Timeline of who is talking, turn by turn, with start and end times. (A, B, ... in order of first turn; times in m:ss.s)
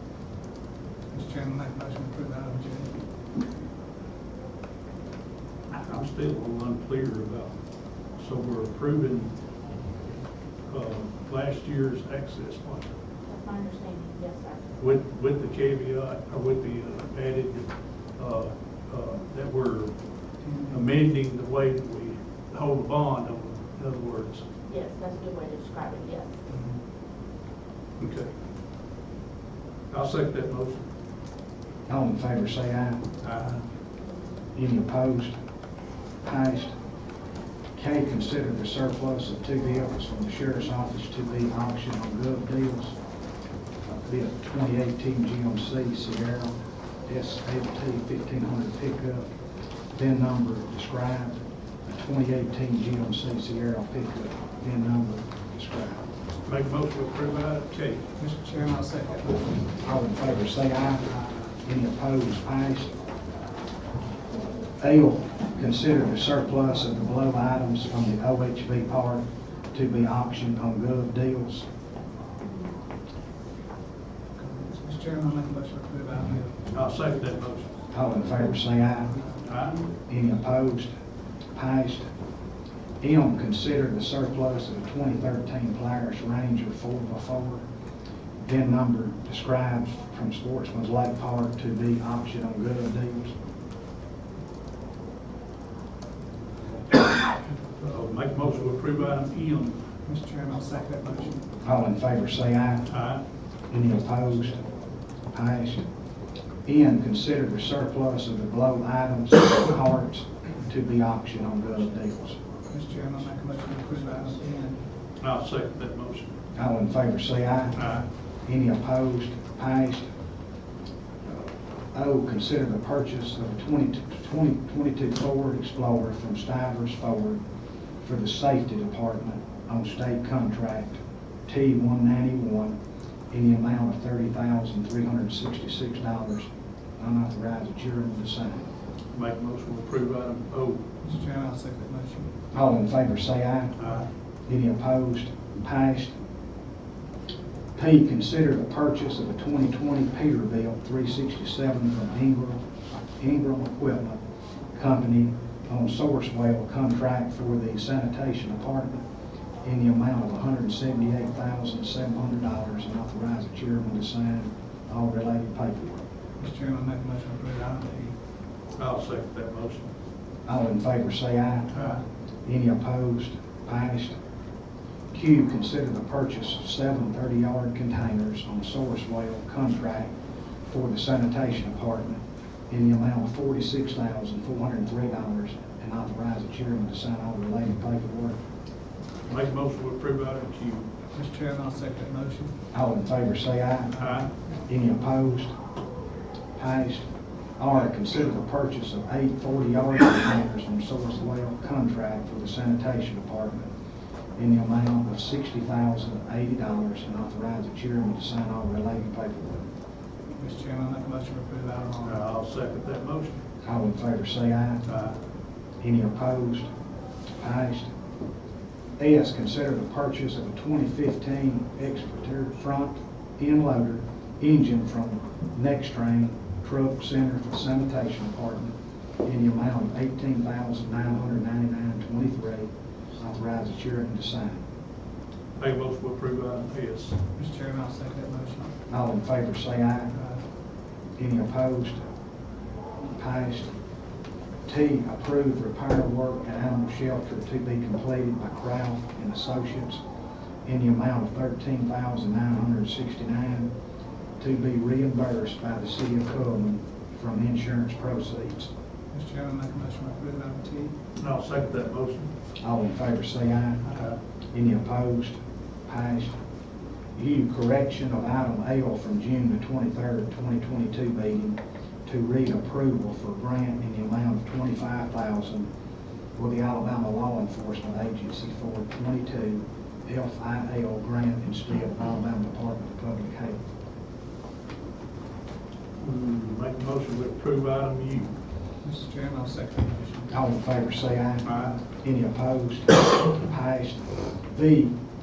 0:01.1-0:03.0 A
0:05.7-0:07.5 B
0:08.2-0:09.3 B
0:10.7-0:12.9 B
0:13.3-0:14.7 C
0:14.8-0:19.9 B
0:20.7-0:24.4 B
0:24.7-0:26.4 C
0:26.5-0:26.7 A
0:28.0-0:28.3 B
0:29.9-0:30.8 B
0:31.9-0:33.0 D
0:33.2-0:33.6 B
0:34.5-0:35.4 D
0:36.2-0:36.8 D
0:37.7-0:43.0 D
0:43.9-0:46.5 D
0:47.1-0:49.3 D
0:49.9-0:56.0 D
0:56.4-0:58.1 B
0:58.2-0:59.7 A
0:59.8-1:02.9 D
1:04.8-1:11.6 D
1:14.4-1:16.7 A
1:16.7-1:17.7 B
1:17.9-1:19.1 D
1:19.4-1:19.9 B
1:20.1-1:20.9 D
1:21.5-1:22.1 D
1:23.0-1:27.6 D
1:28.4-1:33.3 D
1:37.8-1:39.8 B
1:40.0-1:41.4 A
1:41.6-1:42.9 D
1:42.9-1:43.2 B
1:43.7-1:44.6 D
1:45.3-1:45.9 D
1:46.6-1:52.4 D
1:52.7-1:54.8 A
1:55.2-1:56.3 B
1:56.5-1:57.8 D
1:57.8-1:58.0 B
1:58.4-2:00.1 D
2:01.3-2:07.4 D
2:08.0-2:12.8 D
2:13.3-2:18.7 D
2:19.1-2:20.8 B
2:21.0-2:22.3 A
2:22.5-2:23.7 D
2:23.8-2:24.0 B
2:24.5-2:26.2 D
2:27.7-2:32.6 D
2:33.2-2:34.2 D
2:34.7-2:39.0 D
2:39.6-2:46.0 D
2:46.4-2:48.1 A
2:48.8-2:49.9 B
2:50.4-2:54.2 D
2:55.1-3:00.1 D
3:00.6-3:08.4 D
3:09.2-3:10.9 B
3:11.1-3:12.5 A
3:12.7-3:14.0 D
3:14.0-3:14.3 B
3:14.6-3:15.5 D
3:16.6-3:17.1 D
3:17.6-3:23.7 D
3:24.4-3:29.7 D
3:30.4-3:32.2 A
3:32.0-3:33.4 B
3:33.6-3:34.8 D
3:34.8-3:35.2 B
3:35.8-3:36.7 D
3:37.4-3:37.9 D
3:39.0-3:54.6 D
3:55.6-3:57.2 B
3:57.3-3:58.7 A
3:58.9-4:00.1 D
4:01.2-4:02.0 D
4:03.1-4:03.7 D
4:04.6-4:10.0 D
4:10.6-4:13.7 D
4:14.4-4:18.7 D
4:19.1-4:20.9 A
4:21.2-4:22.3 B
4:22.6-4:23.9 D
4:24.5-4:26.4 D
4:27.2-4:35.7 D
4:36.4-4:43.6 D
4:46.0-4:48.3 B
4:48.8-4:50.3 A
4:50.3-4:54.9 D
4:51.4-4:51.7 B